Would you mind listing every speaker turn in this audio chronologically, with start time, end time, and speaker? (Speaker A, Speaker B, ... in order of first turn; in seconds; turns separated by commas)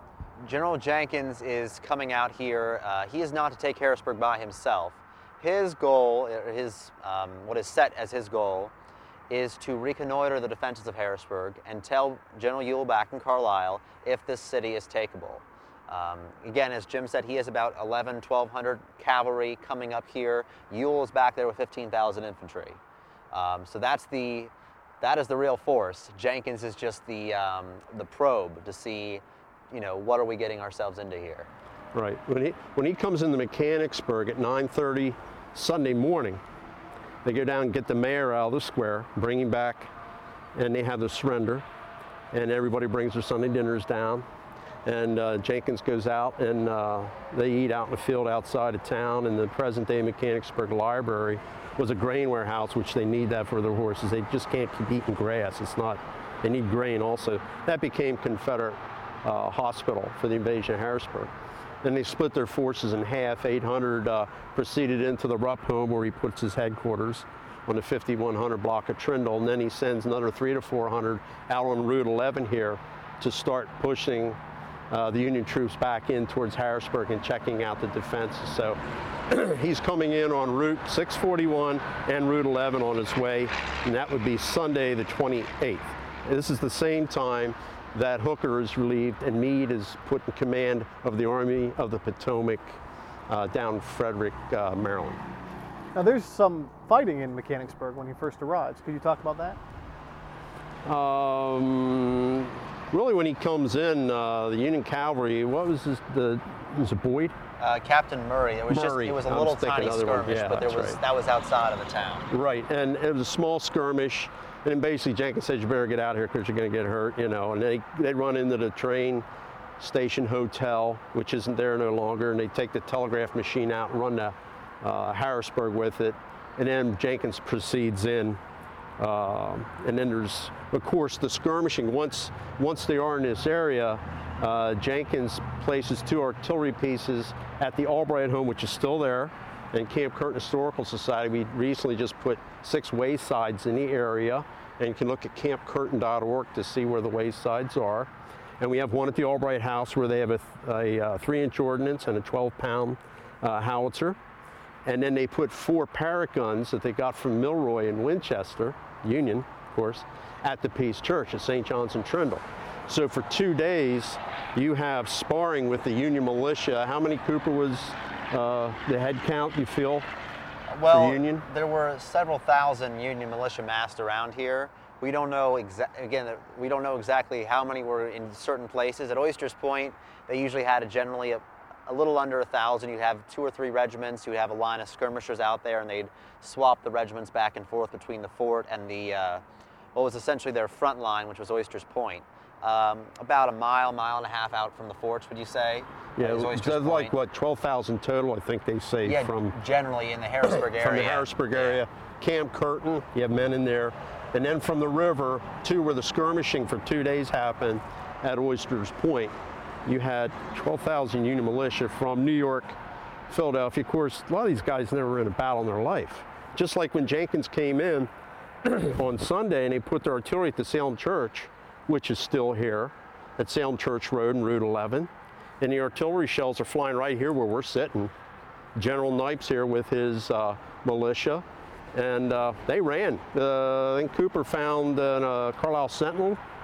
Speaker A: 0.4-8.7, Speaker A: 9.3-22.8, Speaker A: 23.3-31.5, Speaker B: 31.9-36.4, Speaker B: 37.2-39.9, Speaker B: 40.5-41.6, Speaker B: 42.3-44.2, Speaker B: 44.8-61.3, Speaker B: 61.8-74.4, Speaker B: 74.9-95.2, Speaker C: 95.9-99.6, Speaker B: 100.8-107.4, Speaker A: 107.6-112.3, Speaker B: 108.7-111.0, Speaker B: 112.3-119.2, Speaker B: 119.8-128.4, Speaker B: 129.0-154.2, Speaker B: 154.8-170.1, Speaker A: 170.7-189.4, Speaker B: 170.9-171.4, Speaker A: 189.9-197.1, Speaker B: 196.2-199.6, Speaker A: 199.0-201.8, Speaker B: 200.6-212.8, Speaker B: 213.3-218.1, Speaker B: 218.6-228.1, Speaker B: 228.8-236.4